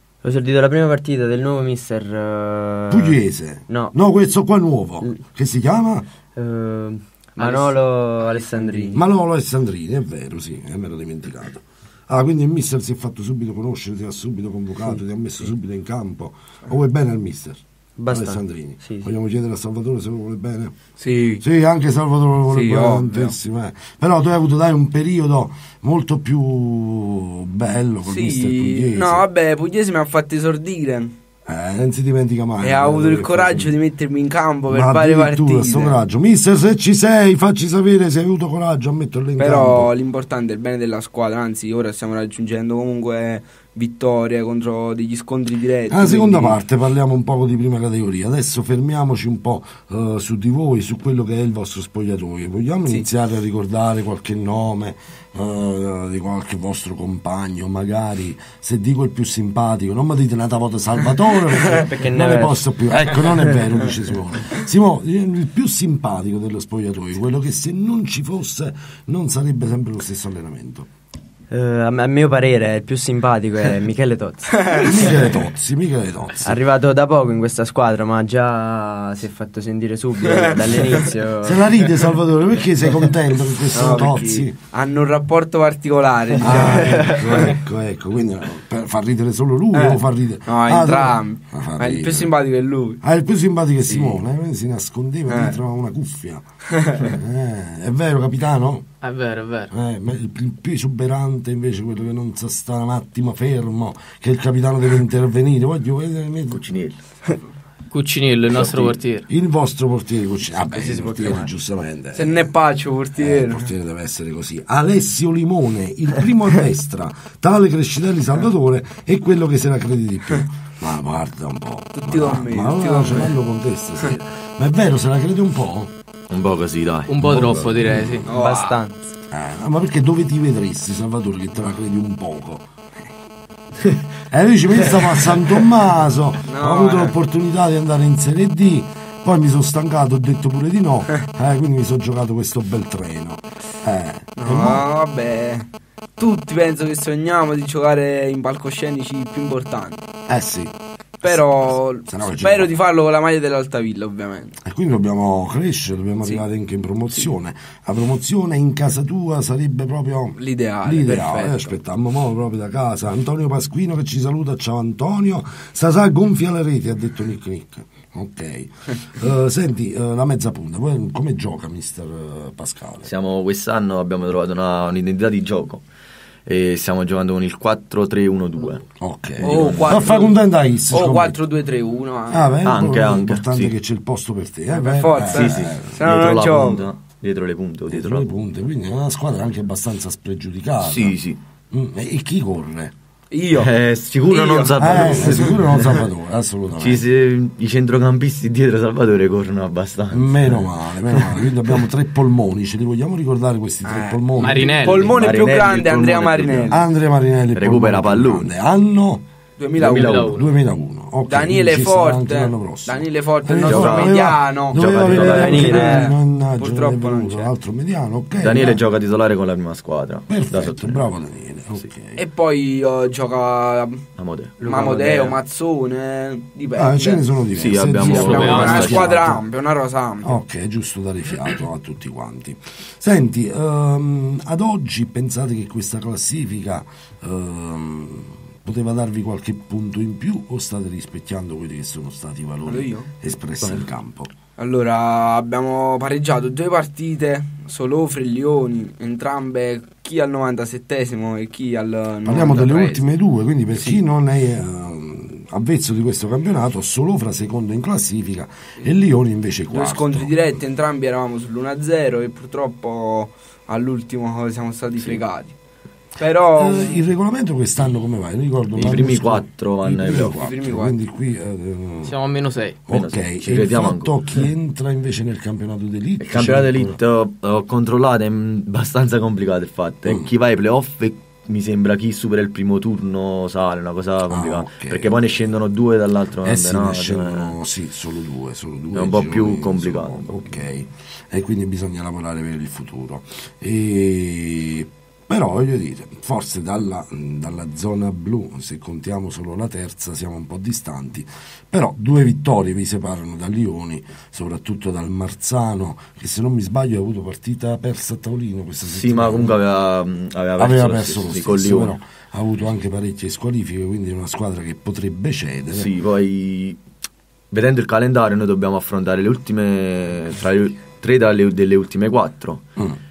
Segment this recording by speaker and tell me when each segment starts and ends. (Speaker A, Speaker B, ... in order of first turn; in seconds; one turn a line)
Speaker A: 0.2-4.0
Speaker B: 2.9-6.1
Speaker A: 6.4-9.0
Speaker C: 7.4-7.7
Speaker C: 8.4-9.0
Speaker B: 8.9-20.7
Speaker A: 18.0-19.1
Speaker C: 21.0-21.4
Speaker B: 21.4-29.2
Speaker C: 22.5-23.3
Speaker C: 28.0-31.1
Speaker B: 31.5-33.8
Speaker C: 32.6-36.0
Speaker B: 34.7-39.9
Speaker C: 39.4-46.6
Speaker B: 45.9-70.9
Speaker A: 61.7-62.6
Speaker A: 71.5-74.7
Speaker C: 74.6-75.1
Speaker B: 74.8-76.5
Speaker A: 76.4-81.7
Speaker C: 80.4-80.9
Speaker B: 81.4-84.6
Speaker C: 83.7-87.6
Speaker B: 86.4-92.3
Speaker C: 89.7-93.0
Speaker B: 93.0-98.9
Speaker C: 93.9-94.2
Speaker C: 95.3-95.6
Speaker C: 96.7-97.2
Speaker D: 99.0-99.7
Speaker B: 99.7-106.6
Speaker E: 106.5-107.0
Speaker D: 107.9-109.3
Speaker E: 108.5-109.0
Speaker B: 109.3-112.5
Speaker A: 110.7-111.5
Speaker C: 112.2-113.7
Speaker B: 113.2-125.9
Speaker C: 122.0-123.3
Speaker E: 126.3-128.1
Speaker D: 127.1-128.3
Speaker C: 128.3-128.8
Speaker A: 128.3-129.0
Speaker B: 129.3-132.7
Speaker B: 134.3-144.9
Speaker C: 136.5-137.1
Speaker C: 144.4-150.0
Speaker B: 150.3-152.7
Speaker C: 151.2-154.6
Speaker B: 154.6-173.1
Speaker C: 160.4-161.8
Speaker E: 173.0-175.8
Speaker E: 176.5-178.9
Speaker B: 179.0-181.4
Speaker E: 179.4-180.2
Speaker C: 179.4-180.4
Speaker C: 180.9-182.6
Speaker B: 182.3-186.1
Speaker E: 182.6-183.7
Speaker C: 184.7-186.9
Speaker E: 185.3-188.3
Speaker B: 187.9-191.2
Speaker E: 190.8-191.4
Speaker B: 191.7-192.9
Speaker C: 193.3-193.7
Speaker E: 193.5-196.0
Speaker C: 194.3-195.9
Speaker B: 194.8-197.1
Speaker E: 196.8-201.3
Speaker B: 200.1-205.1
Speaker C: 203.8-206.8
Speaker D: 204.3-205.2
Speaker E: 205.1-206.8
Speaker B: 206.7-209.2
Speaker E: 207.6-208.5
Speaker C: 209.6-210.1
Speaker E: 209.8-210.3
Speaker D: 209.9-210.6
Speaker B: 210.1-218.8
Speaker C: 211.3-217.5
Speaker E: 213.7-214.2
Speaker E: 214.7-215.7
Speaker A: 215.3-216.1
Speaker E: 218.4-221.2
Speaker B: 220.3-222.2
Speaker C: 222.2-224.0
Speaker E: 224.2-224.7
Speaker A: 224.6-225.4
Speaker C: 224.6-227.2
Speaker B: 226.8-229.4
Speaker E: 227.6-229.3
Speaker C: 228.0-230.4
Speaker D: 228.3-229.1
Speaker B: 230.2-244.3
Speaker C: 242.7-243.1
Speaker C: 244.6-253.1
Speaker B: 252.3-260.4
Speaker C: 259.7-265.6
Speaker C: 266.2-267.0
Speaker B: 266.6-272.2
Speaker E: 268.8-270.4
Speaker C: 270.1-271.0
Speaker D: 272.1-272.8
Speaker B: 272.9-277.0
Speaker E: 272.9-274.3
Speaker E: 276.2-287.6
Speaker B: 284.3-285.2
Speaker B: 286.4-309.6
Speaker E: 288.9-290.6
Speaker E: 308.9-312.0
Speaker B: 310.6-315.9
Speaker E: 315.7-316.8
Speaker E: 317.5-322.7